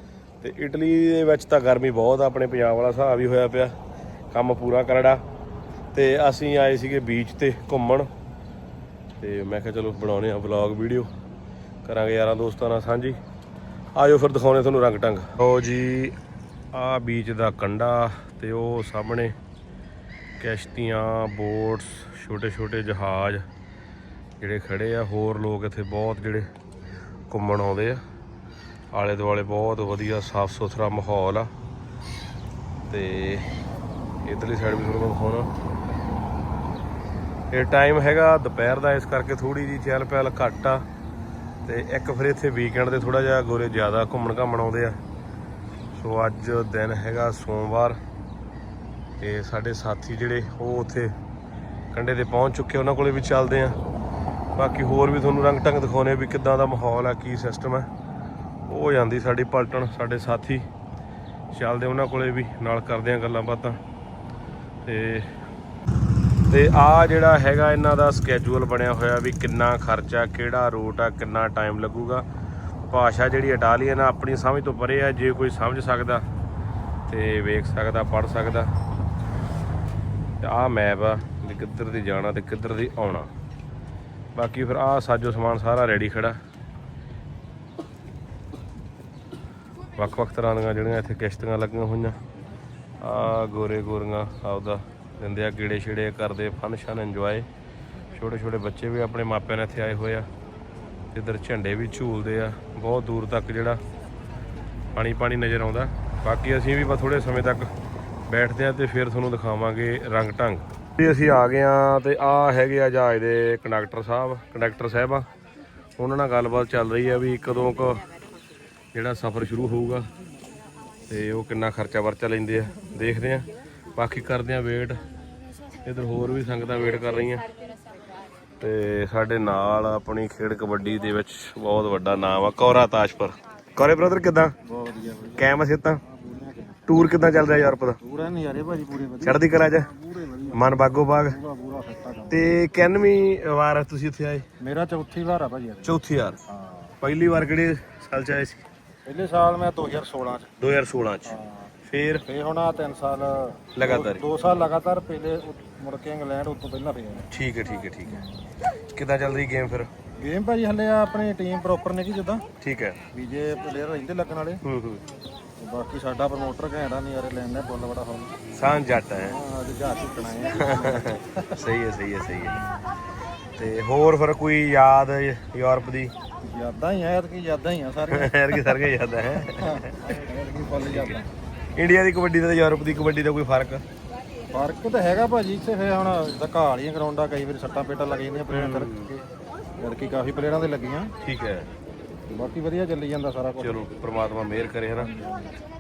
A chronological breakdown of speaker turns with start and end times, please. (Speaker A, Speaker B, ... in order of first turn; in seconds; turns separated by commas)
Speaker A: 0.4-3.7, Speaker A: 4.3-5.2, Speaker A: 5.9-8.1, Speaker A: 9.2-11.1, Speaker A: 11.8-13.2, Speaker A: 13.9-16.1, Speaker A: 16.7-19.3, Speaker A: 20.4-23.4, Speaker A: 24.4-26.5, Speaker A: 27.3-28.0, Speaker A: 28.9-31.5, Speaker A: 32.9-33.5, Speaker A: 34.2-35.5, Speaker A: 37.5-40.8, Speaker A: 41.6-45.0, Speaker A: 46.0-48.0, Speaker A: 49.2-51.1, Speaker A: 51.9-53.7, Speaker A: 54.5-57.9, Speaker A: 58.7-60.6, Speaker A: 61.5-63.8, Speaker A: 64.8-65.3, Speaker A: 66.5-72.2, Speaker A: 72.8-76.2, Speaker A: 77.1-78.7, Speaker A: 80.4-83.3, Speaker A: 84.3-86.4, Speaker A: 90.0-92.2, Speaker A: 93.0-97.5, Speaker A: 98.1-100.3, Speaker A: 101.1-103.8, Speaker A: 104.9-107.7, Speaker A: 108.3-115.3, Speaker A: 116.0-118.0, Speaker A: 118.9-120.0, Speaker A: 121.1-125.0, Speaker A: 125.8-127.4, Speaker A: 128.6-134.5, Speaker B: 134.7-135.4, Speaker A: 135.4-136.0, Speaker B: 136.0-136.8, Speaker A: 136.9-138.0, Speaker B: 138.0-142.4, Speaker A: 139.2-139.9, Speaker A: 140.5-141.4, Speaker A: 142.3-144.4, Speaker B: 144.6-145.9, Speaker A: 145.8-146.4, Speaker B: 146.5-146.9, Speaker A: 147.0-148.6, Speaker B: 149.1-150.6, Speaker A: 150.6-152.2, Speaker B: 151.3-151.7, Speaker B: 152.2-157.2, Speaker A: 153.8-154.2, Speaker A: 157.3-158.2, Speaker A: 158.9-159.9, Speaker B: 160.2-162.4, Speaker A: 162.6-163.0, Speaker B: 163.1-164.6, Speaker A: 164.6-165.0, Speaker B: 165.6-168.3, Speaker A: 168.5-169.4, Speaker B: 169.2-171.4, Speaker A: 170.6-172.6, Speaker A: 173.6-176.1, Speaker B: 176.4-178.8, Speaker A: 178.1-180.0, Speaker B: 179.4-181.3, Speaker A: 180.9-181.2, Speaker A: 181.8-183.8, Speaker B: 184.5-189.2, Speaker A: 188.5-189.1, Speaker B: 189.8-191.1, Speaker A: 191.2-191.7, Speaker B: 192.3-193.8, Speaker A: 193.6-195.1, Speaker B: 195.0-195.5